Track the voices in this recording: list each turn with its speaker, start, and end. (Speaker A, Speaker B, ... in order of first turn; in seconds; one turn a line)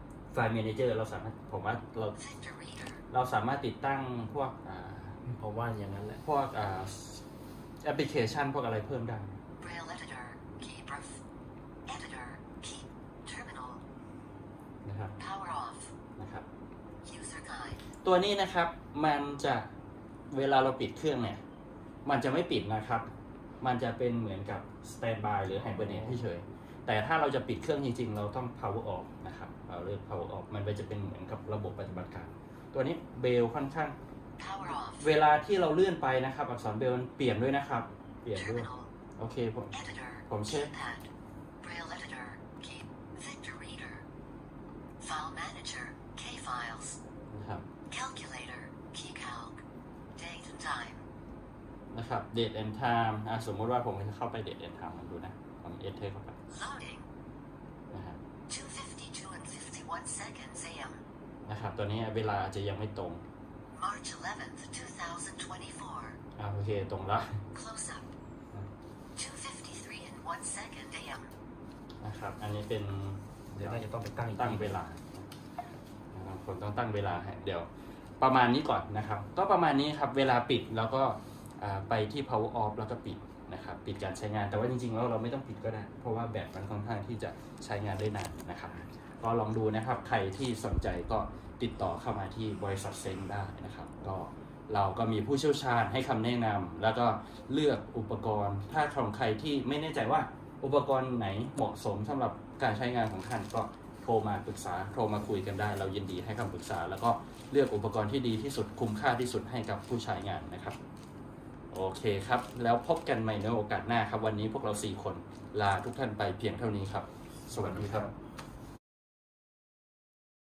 Speaker A: 0.3-2.2
Speaker B: 2.1-3.0
Speaker A: 3.1-5.2
Speaker C: 5.2-6.2
Speaker A: 6.2-7.2
Speaker A: 7.8-9.4
Speaker B: 9.6-11.2
Speaker B: 11.9-13.8
Speaker A: 14.8-15.1
Speaker B: 15.2-15.9
Speaker A: 16.2-16.4
Speaker B: 17.0-17.8
Speaker A: 18.0-19.7
Speaker A: 20.3-21.4
Speaker A: 22.0-34.0
Speaker B: 34.4-35.1
Speaker A: 35.0-40.7
Speaker B: 38.3-38.9
Speaker B: 39.7-41.1
Speaker B: 41.6-44.0
Speaker B: 45.0-47.0
Speaker A: 47.3-47.6
Speaker B: 47.9-49.6
Speaker B: 50.1-51.0
Speaker A: 51.9-56.4
Speaker B: 56.5-57.0
Speaker A: 57.9-58.2
Speaker B: 58.5-61.0
Speaker A: 61.4-63.2
Speaker B: 63.7-66.2
Speaker A: 66.4-67.4
Speaker B: 67.5-68.1
Speaker B: 69.2-71.3
Speaker A: 72.0-73.8
Speaker C: 73.6-74.8
Speaker A: 74.3-75.3
Speaker A: 76.1-77.7
Speaker A: 78.2-110.8
Speaker A: 111.7-118.1
Speaker C: 117.5-118.1